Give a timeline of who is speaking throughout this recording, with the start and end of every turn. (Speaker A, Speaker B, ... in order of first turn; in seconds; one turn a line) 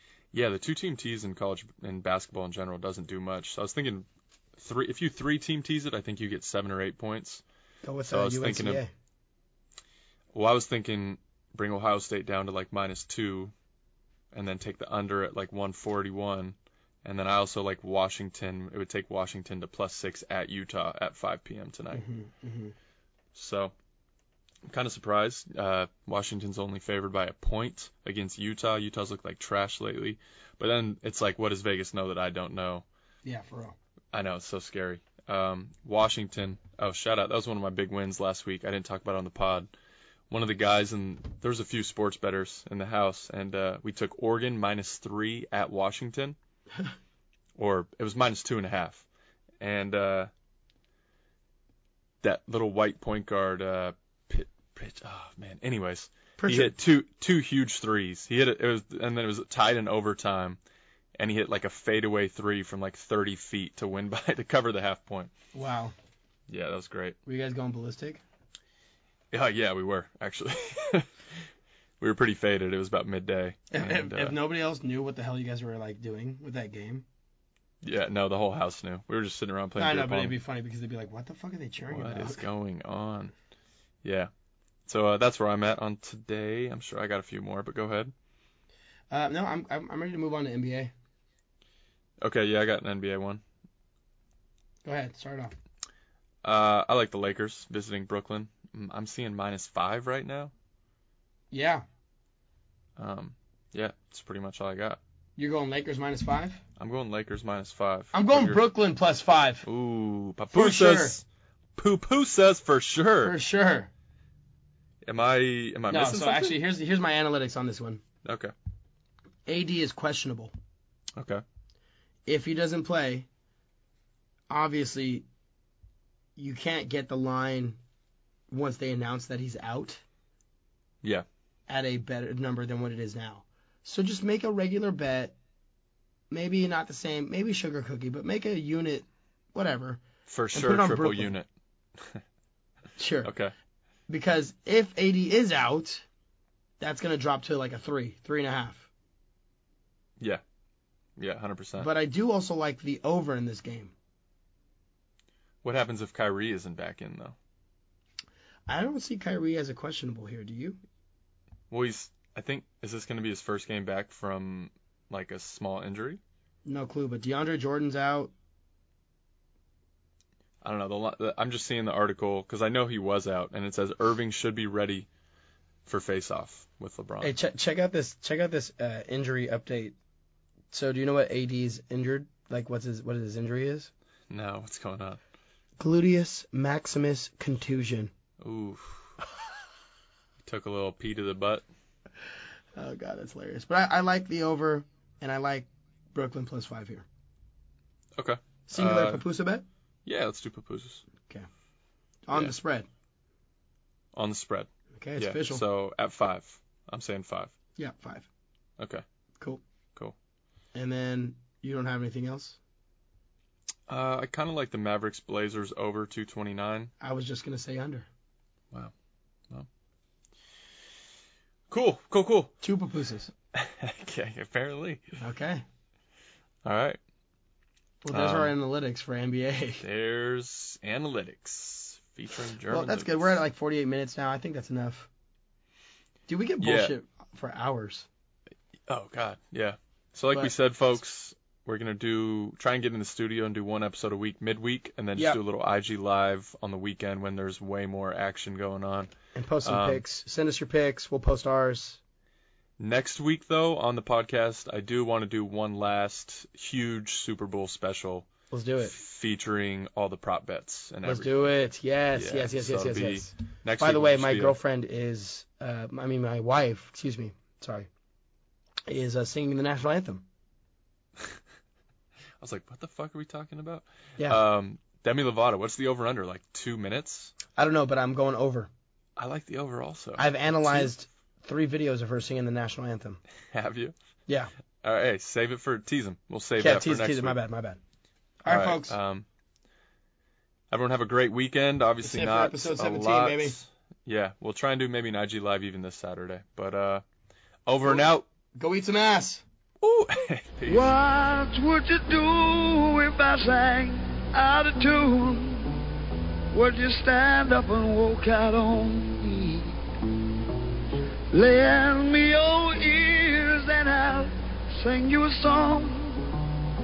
Speaker A: 0.3-7.4
Speaker B: 7.8-8.9
Speaker A: 8.1-8.8
Speaker A: 10.3-13.5
Speaker A: 14.3-22.1
Speaker B: 21.9-22.7
Speaker A: 23.3-23.7
Speaker A: 24.6-32.8
Speaker B: 33.2-33.8
Speaker A: 34.1-39.7
Speaker A: 40.3-46.4
Speaker A: 47.5-49.0
Speaker A: 49.6-50.3
Speaker A: 52.2-60.6
Speaker B: 56.4-56.7
Speaker A: 61.2-65.3
Speaker B: 65.5-65.9
Speaker A: 66.5-67.2
Speaker B: 67.2-68.2
Speaker A: 69.3-71.2
Speaker A: 72.0-74.4
Speaker B: 73.7-77.0
Speaker A: 77.8-80.4
Speaker B: 79.8-82.4
Speaker A: 81.9-83.3
Speaker A: 84.0-84.3
Speaker A: 84.8-88.1
Speaker B: 89.1-90.9
Speaker A: 92.2-93.4
Speaker B: 94.8-95.5
Speaker A: 96.4-100.5
Speaker B: 101.5-101.8
Speaker A: 103.0-105.0
Speaker B: 105.4-106.6
Speaker A: 106.8-108.6
Speaker B: 108.1-109.7
Speaker A: 109.6-111.2
Speaker B: 110.5-111.2
Speaker A: 111.8-113.4
Speaker B: 113.2-113.9
Speaker A: 115.0-116.6
Speaker B: 115.9-118.0
Speaker A: 118.2-118.5
Speaker B: 119.5-120.5
Speaker A: 121.2-121.4
Speaker B: 122.3-123.3
Speaker B: 124.5-125.3
Speaker B: 126.3-127.8
Speaker B: 128.5-130.0
Speaker B: 131.7-135.3
Speaker B: 136.3-140.0
Speaker A: 140.2-142.2
Speaker B: 140.5-141.3
Speaker B: 143.0-143.3
Speaker A: 143.2-143.5
Speaker B: 144.1-146.0
Speaker B: 146.8-148.9
Speaker A: 151.2-151.9
Speaker B: 151.8-153.9
Speaker A: 155.6-157.3
Speaker B: 158.7-160.8
Speaker A: 161.7-166.2
Speaker B: 166.7-168.3
Speaker A: 170.6-175.1
Speaker A: 175.8-177.3
Speaker B: 177.2-179.9
Speaker B: 180.7-183.9
Speaker A: 184.3-185.2
Speaker B: 185.8-188.1
Speaker A: 188.4-189.2
Speaker A: 190.4-191.7
Speaker B: 192.8-197.1
Speaker A: 198.2-199.2
Speaker B: 198.7-199.7
Speaker A: 200.0-201.0
Speaker B: 202.3-202.9
Speaker A: 204.1-207.5
Speaker B: 204.9-205.6
Speaker B: 207.8-208.3
Speaker A: 208.8-209.0
Speaker B: 210.7-212.6
Speaker A: 213.9-216.9
Speaker B: 217.0-218.1
Speaker A: 221.7-222.5
Speaker B: 222.6-223.3
Speaker A: 223.5-225.2
Speaker B: 225.2-225.6
Speaker A: 226.6-227.0
Speaker B: 228.0-229.8
Speaker A: 228.1-228.5
Speaker A: 229.8-233.4
Speaker B: 232.7-235.1
Speaker B: 236.3-238.1
Speaker A: 236.6-236.9
Speaker A: 238.9-249.1
Speaker B: 249.3-252.0
Speaker A: 249.6-250.0
Speaker A: 252.8-258.3
Speaker B: 258.5-258.9
Speaker A: 258.8-261.5
Speaker B: 261.0-267.9
Speaker A: 262.1-264.6
Speaker B: 268.9-270.2
Speaker A: 272.4-277.3
Speaker B: 277.6-278.7
Speaker A: 279.2-280.9
Speaker B: 280.2-283.2
Speaker A: 283.5-283.9
Speaker A: 284.8-287.4
Speaker B: 286.6-287.8
Speaker B: 288.4-288.9
Speaker A: 288.5-289.2
Speaker A: 290.7-297.0
Speaker B: 292.0-293.6
Speaker A: 297.6-298.2
Speaker B: 298.6-299.4
Speaker A: 299.8-301.0
Speaker C: 300.7-305.8
Speaker C: 306.5-309.8
Speaker C: 311.3-316.3